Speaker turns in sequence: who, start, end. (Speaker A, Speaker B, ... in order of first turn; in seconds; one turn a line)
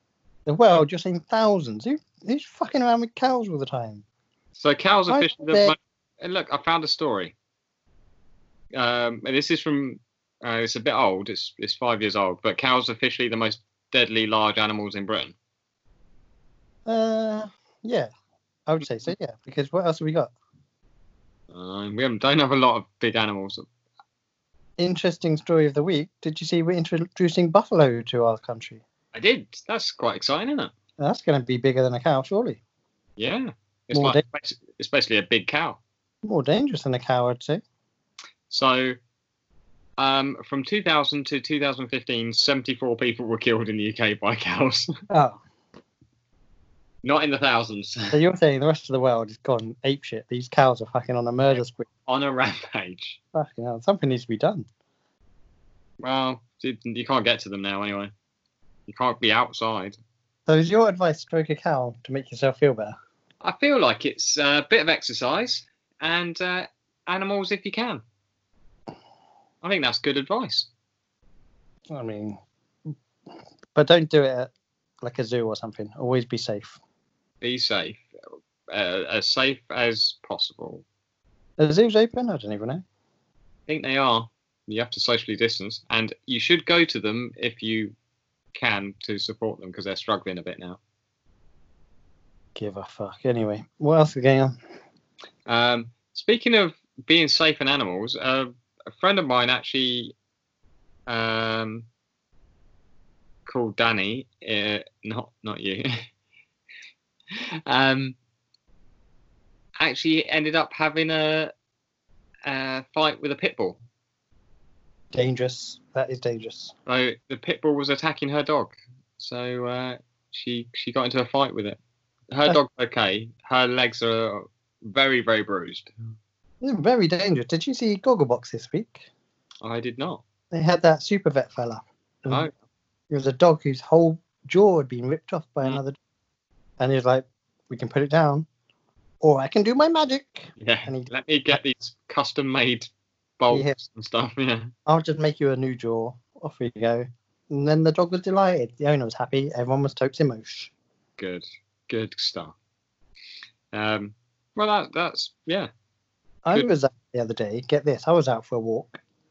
Speaker A: 0.5-4.0
Speaker B: 4.6-7.3
Speaker A: 5.1-5.8
Speaker B: 8.7-15.3
Speaker A: 16.9-18.1
Speaker A: 18.7-20.3
Speaker B: 21.5-23.6
Speaker A: 24.8-28.8
Speaker B: 29.1-30.7
Speaker A: 31.0-32.6
Speaker B: 33.2-35.8
Speaker A: 33.9-34.2
Speaker A: 36.2-37.6
Speaker B: 38.5-39.0
Speaker B: 40.0-44.9
Speaker A: 45.1-45.4
Speaker B: 47.0-48.2
Speaker A: 48.1-51.9
Speaker B: 52.1-53.2
Speaker A: 53.3-54.7
Speaker B: 56.0-58.1
Speaker B: 58.9-60.0
Speaker A: 60.5-63.0
Speaker B: 63.4-68.0
Speaker B: 69.6-70.7
Speaker A: 71.9-72.4
Speaker A: 73.8-74.5
Speaker A: 75.0-76.8
Speaker B: 77.4-78.0
Speaker B: 78.7-80.8
Speaker A: 81.6-82.8
Speaker B: 83.7-88.0
Speaker B: 88.5-90.8
Speaker A: 92.6-94.6
Speaker B: 95.5-100.2
Speaker B: 101.1-101.9
Speaker B: 103.5-106.0
Speaker B: 107.3-108.2
Speaker B: 109.8-111.5
Speaker B: 112.5-113.8
Speaker A: 115.1-116.7
Speaker B: 116.9-121.8
Speaker B: 122.3-125.9
Speaker A: 126.6-129.1
Speaker B: 129.6-130.2
Speaker A: 130.5-132.5
Speaker A: 133.1-136.0
Speaker A: 136.8-138.5
Speaker A: 139.2-141.6
Speaker B: 140.6-144.7
Speaker A: 144.9-150.7
Speaker B: 151.2-152.6
Speaker B: 153.7-155.7
Speaker A: 156.4-159.0